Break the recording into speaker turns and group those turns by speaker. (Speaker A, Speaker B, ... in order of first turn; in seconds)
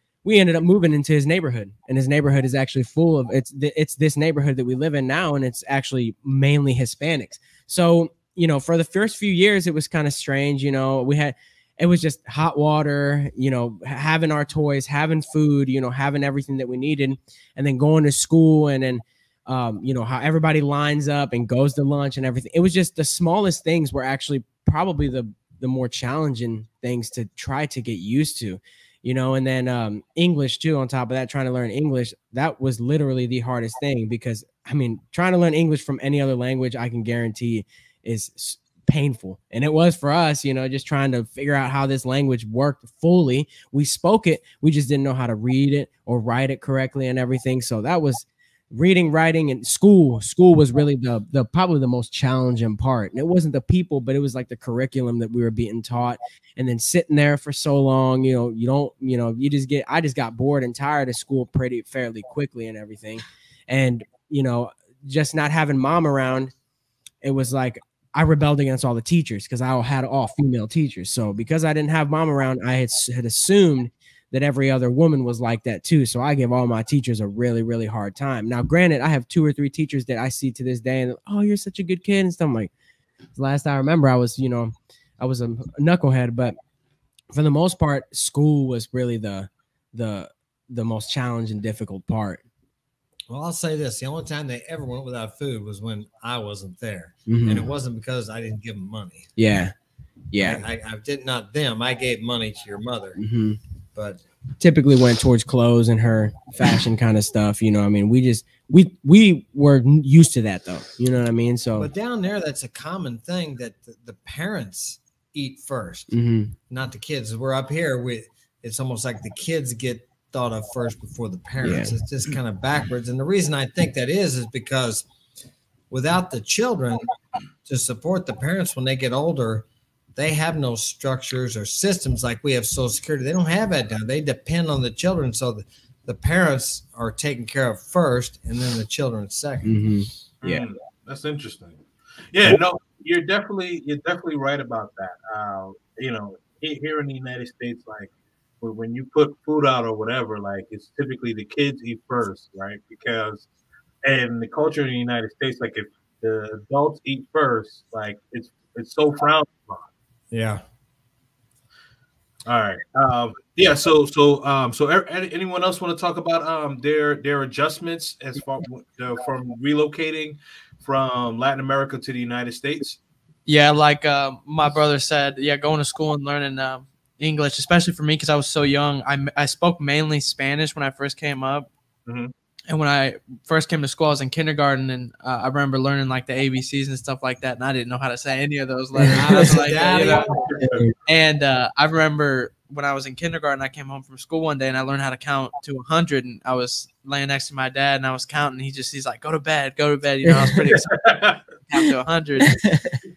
Speaker A: 0.2-66.5, 67.2-82.7, 83.4-86.6, 87.3-92.4, 97.3-97.7, 99.4-99.7, 100.3-100.6, 103.2-103.6, 104.6-111.9, 116.1-116.6, 121.6-122.0, 139.6-140.7, 189.0-189.4, 200.3-200.8, 202.5-202.9
Speaker B: 93.3-99.3, 100.4-103.2, 104.0-104.2, 111.8-116.1, 116.7-125.0, 125.9-127.1, 127.6-139.7, 160.3-160.6, 189.1-190.7
Speaker C: 140.4-148.1, 148.6-153.5, 154.0-159.8, 162.5-173.0, 182.1-182.3, 190.4-190.8, 200.9-201.4
Speaker D: 173.5-181.7, 182.7-190.3, 191.1-202.6